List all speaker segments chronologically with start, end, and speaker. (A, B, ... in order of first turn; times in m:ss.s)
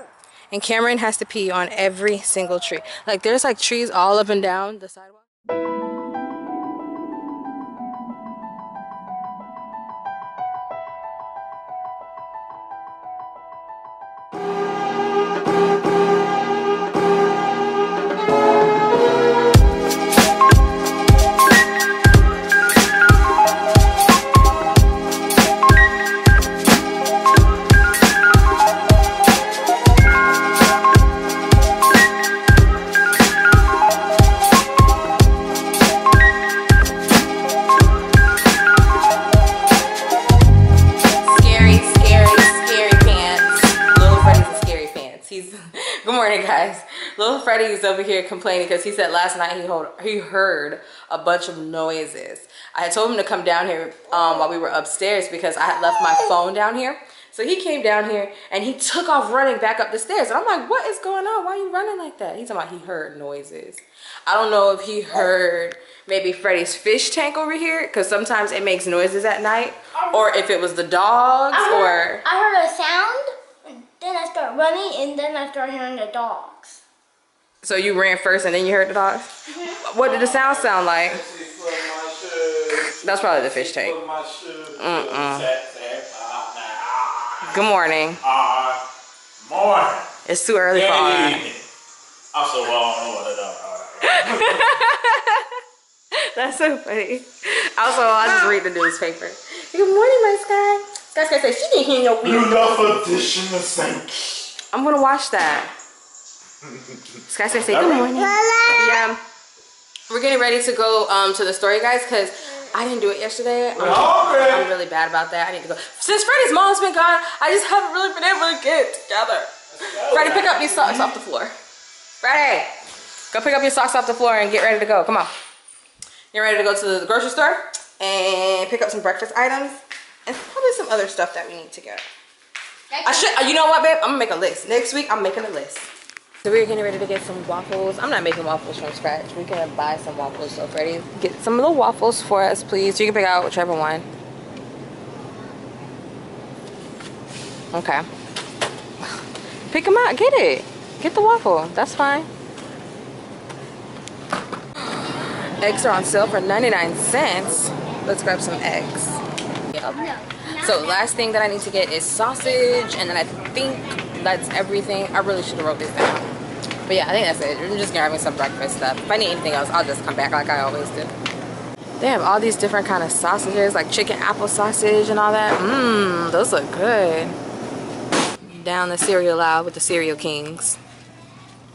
0:00.5-0:05.3 A
0:41.2-1:12.2 A
1:11.5-1:16.8 B
1:17.6-1:21.2 A
1:20.0-1:27.6 C
1:22.8-1:24.0 A
1:24.8-1:25.5 A
1:27.4-1:28.2 A
1:28.2-1:28.8 C
1:29.4-1:30.1 C
1:30.2-1:31.4 A
1:30.7-1:31.6 C
1:32.3-1:34.7 C
1:34.0-1:35.6 A
1:36.1-1:43.0 A
1:42.2-1:44.4 C
1:44.7-1:45.7 A
1:47.3-1:49.2 A
1:47.7-1:48.1 C
1:48.1-1:49.0 B
1:50.1-2:01.5 A
1:53.8-1:54.7 C
1:59.8-2:01.1 C
2:02.2-2:02.7 A
2:03.3-2:05.3 A
2:06.3-2:12.0 A
2:12.9-2:13.2 B
2:13.0-2:15.9 A
2:16.4-2:24.1 A
2:27.7-2:28.1 A
2:29.0-2:32.3 A
2:34.8-2:51.1 A
2:40.0-2:40.6 B
2:52.0-2:57.4 A
2:58.4-3:00.8 A